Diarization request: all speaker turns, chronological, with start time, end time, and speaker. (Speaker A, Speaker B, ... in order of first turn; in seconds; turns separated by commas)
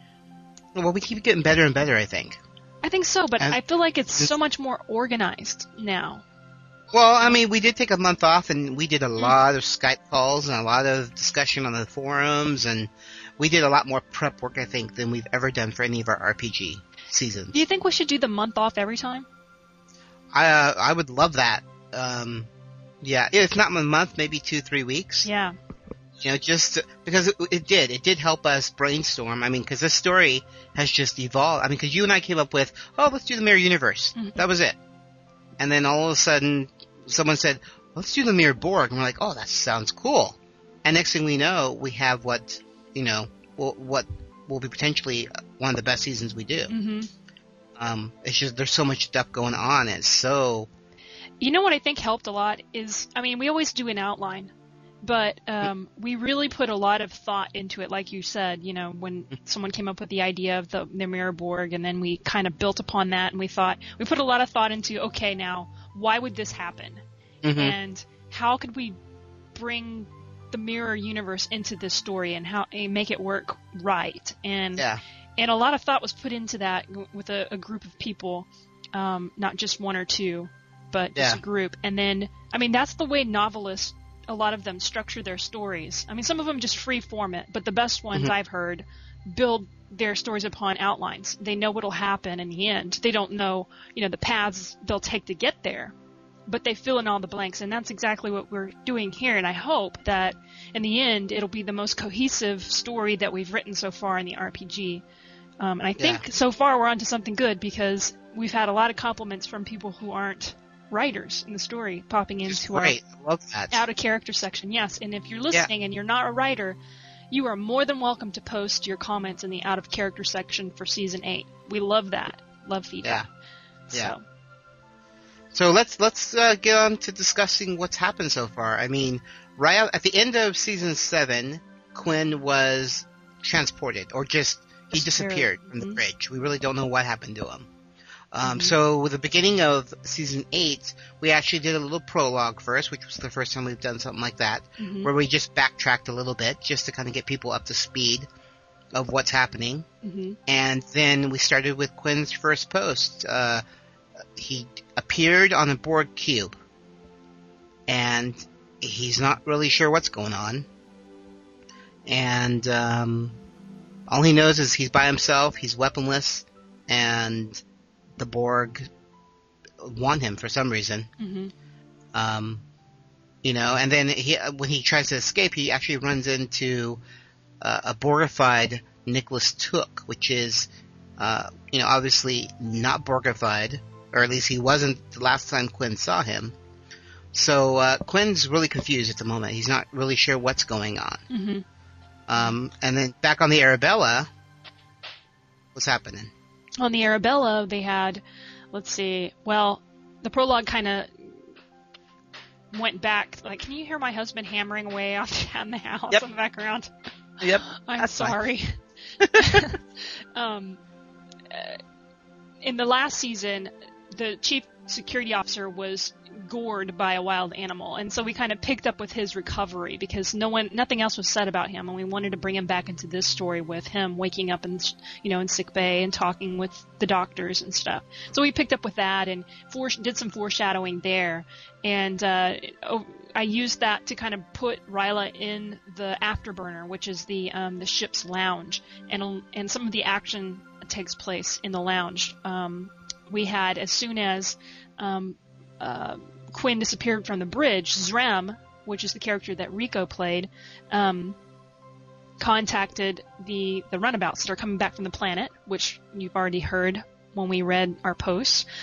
Speaker A: 0.7-2.4, Speaker B: 2.8-6.2, Speaker A: 6.9-17.6, Speaker B: 17.5-19.3, Speaker A: 20.3-22.5, Speaker A: 23.0-25.3, Speaker B: 25.2-25.6, Speaker A: 26.2-34.8, Speaker B: 34.1-34.4, Speaker A: 35.6-46.7, Speaker B: 46.7-47.1, Speaker A: 47.8-50.7, Speaker B: 51.4-54.5, Speaker B: 55.0-67.0, Speaker A: 67.4-67.8, Speaker B: 67.5-69.0, Speaker B: 69.5-74.8, Speaker A: 74.8-75.0, Speaker B: 75.4-95.9, Speaker A: 81.2-81.4, Speaker B: 96.5-105.0, Speaker B: 105.6-113.0, Speaker A: 106.0-106.2, Speaker A: 112.4-113.8, Speaker B: 113.7-116.8, Speaker B: 117.3-123.2, Speaker B: 123.9-124.2, Speaker A: 125.5-137.7, Speaker B: 134.9-136.0, Speaker A: 138.3-148.3, Speaker B: 138.4-138.8, Speaker B: 144.8-145.1, Speaker A: 148.9-149.8, Speaker B: 150.0-150.4, Speaker A: 150.5-153.6, Speaker A: 154.3-156.6, Speaker A: 157.9-160.7, Speaker A: 162.1-163.4, Speaker A: 164.1-167.6, Speaker A: 168.2-168.9, Speaker A: 169.8-171.1, Speaker B: 171.2-171.5, Speaker A: 172.1-172.6, Speaker A: 173.4-177.0, Speaker A: 177.6-186.5, Speaker A: 187.3-191.2, Speaker B: 191.3-191.6, Speaker A: 192.3-194.3, Speaker A: 195.7-196.3, Speaker B: 196.8-201.4, Speaker B: 202.7-206.9, Speaker A: 207.4-208.3, Speaker B: 207.7-208.8, Speaker A: 209.2-209.6, Speaker B: 209.3-210.8, Speaker B: 211.5-211.8, Speaker B: 212.6-251.3, Speaker B: 252.4-258.6